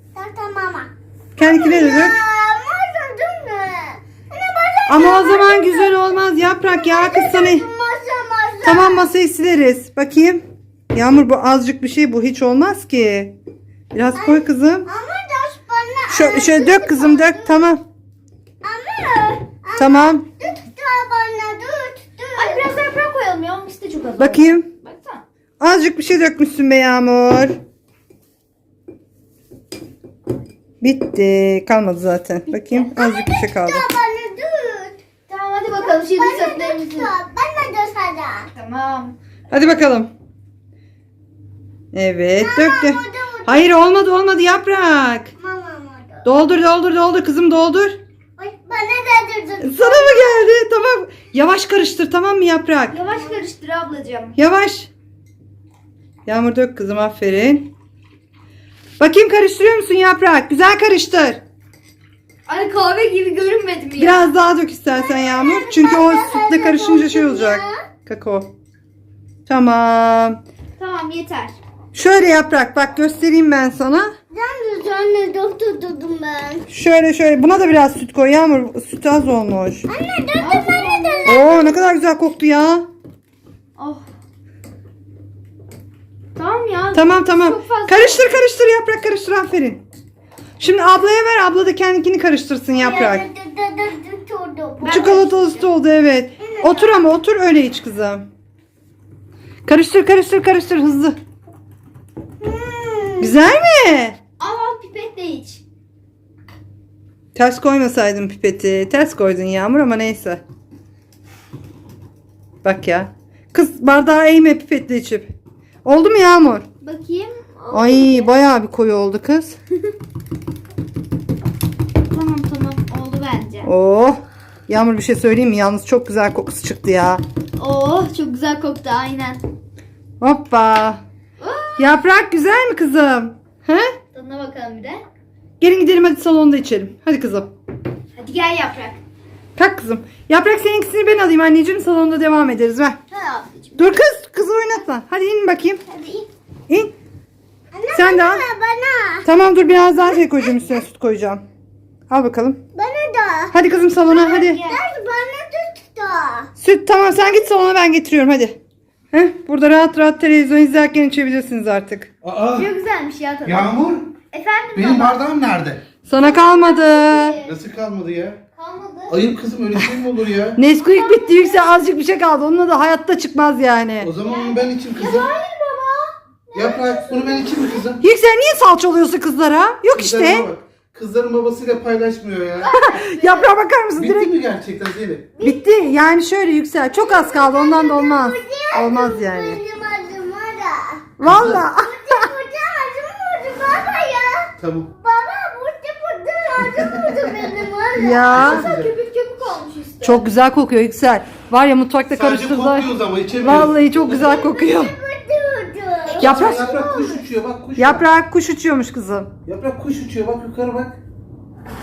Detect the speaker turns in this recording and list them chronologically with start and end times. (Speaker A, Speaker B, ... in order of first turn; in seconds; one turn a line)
Speaker A: 0.1-9.1
Speaker B: 1.4-2.2
Speaker B: 4.9-7.7
Speaker B: 8.6-13.3
Speaker B: 13.9-14.9
Speaker A: 14.2-17.7
Speaker B: 16.1-17.8
Speaker A: 18.6-22.7
Speaker B: 19.8-20.2
Speaker C: 22.3-25.2
Speaker B: 24.2-24.7
Speaker B: 25.6-27.6
Speaker B: 30.8-33.9
Speaker C: 32.5-32.9
Speaker A: 32.9-35.0
Speaker C: 35.3-37.1
Speaker A: 35.8-38.5
Speaker C: 38.5-39.2
Speaker B: 39.5-40.1
Speaker B: 41.9-45.3
Speaker A: 42.4-43.9
Speaker A: 45.4-46.3
Speaker B: 46.2-48.0
Speaker A: 48.4-50.5
Speaker B: 49.6-53.0
Speaker C: 52.9-54.4
Speaker A: 53.0-53.4
Speaker B: 54.4-54.9
Speaker B: 56.3-57.7
Speaker B: 59.0-61.4
Speaker C: 62.5-64.3
Speaker B: 64.0-68.5
Speaker A: 64.9-67.8
Speaker B: 69.5-70.4
Speaker C: 70.8-71.6
Speaker B: 71.9-74.1
Speaker A: 74.3-76.7
Speaker B: 76.7-79.9
Speaker A: 79.9-81.9
Speaker C: 80.4-81.7
Speaker B: 81.2-82.9
Speaker C: 83.8-84.0
Speaker C: 86.3-88.5
Speaker B: 86.9-89.8
Speaker B: 90.6-93.3
Speaker A: 92.7-95.0
Speaker C: 94.8-95.7
Speaker B: 94.9-98.3
Speaker A: 96.5-97.1
Speaker B: 99.7-101.2
Speaker A: 102.4-103.3
Speaker B: 103.2-104.2
Speaker C: 104.4-105.6
Speaker B: 107.3-110.4
Speaker B: 112.6-115.3
Speaker B: 115.8-116.7
Speaker C: 116.8-118.3
Speaker B: 117.7-119.6
Speaker C: 122.1-123.7
Speaker B: 123.6-127.2
Speaker C: 127.6-129.4
Speaker B: 130.2-131.0
Speaker C: 131.4-132.0
Speaker B: 131.8-133.9
Speaker C: 134.1-135.0
Speaker B: 135.6-137.5
Speaker C: 138.2-139.0
Speaker B: 139.6-143.0
Speaker C: 143.1-144.0
Speaker B: 143.8-145.8
Speaker C: 145.9-146.3
Speaker A: 147.7-149.3
Speaker B: 147.9-148.4
Speaker B: 149.2-151.4
Speaker B: 152.1-152.6
Speaker A: 152.8-153.6
Speaker B: 153.5-154.6
Speaker C: 154.1-154.8
Speaker A: 154.6-156.5
Speaker B: 156.6-158.6
Speaker B: 159.1-162.1
Speaker D: 162.2-162.7
Speaker C: 162.5-163.7
Speaker D: 163.4-164.2
Speaker C: 164.3-165.2
Speaker D: 164.7-165.8
Speaker B: 166.1-167.4
Speaker C: 166.2-167.6
Speaker D: 167.4-168.4
Speaker C: 168.6-169.2
Speaker D: 169.1-170.6
Speaker B: 170.6-174.1
Speaker C: 170.8-171.8
Speaker D: 174.0-175.3
Speaker C: 174.2-177.9
Speaker D: 176.5-178.0
Speaker B: 178.0-180.5
Speaker D: 179.9-182.7
Speaker C: 182.6-183.5
Speaker B: 182.7-184.3
Speaker D: 184.0-185.3
Speaker A: 185.4-185.9
Speaker B: 185.4-189.6
Speaker A: 186.9-191.1
Speaker B: 191.2-192.2
Speaker D: 191.2-191.6
Speaker A: 191.7-198.3
Speaker D: 194.6-194.9
Speaker D: 196.7-197.5
Speaker B: 197.9-198.7
Speaker D: 198.3-198.9
Speaker C: 198.3-200.3
Speaker B: 200.0-204.9
Speaker D: 202.1-204.4
Speaker A: 204.0-206.3
Speaker C: 206.1-207.2
Speaker B: 206.2-207.0
Speaker D: 206.2-208.1
Speaker B: 207.8-209.3
Speaker D: 209.5-211.0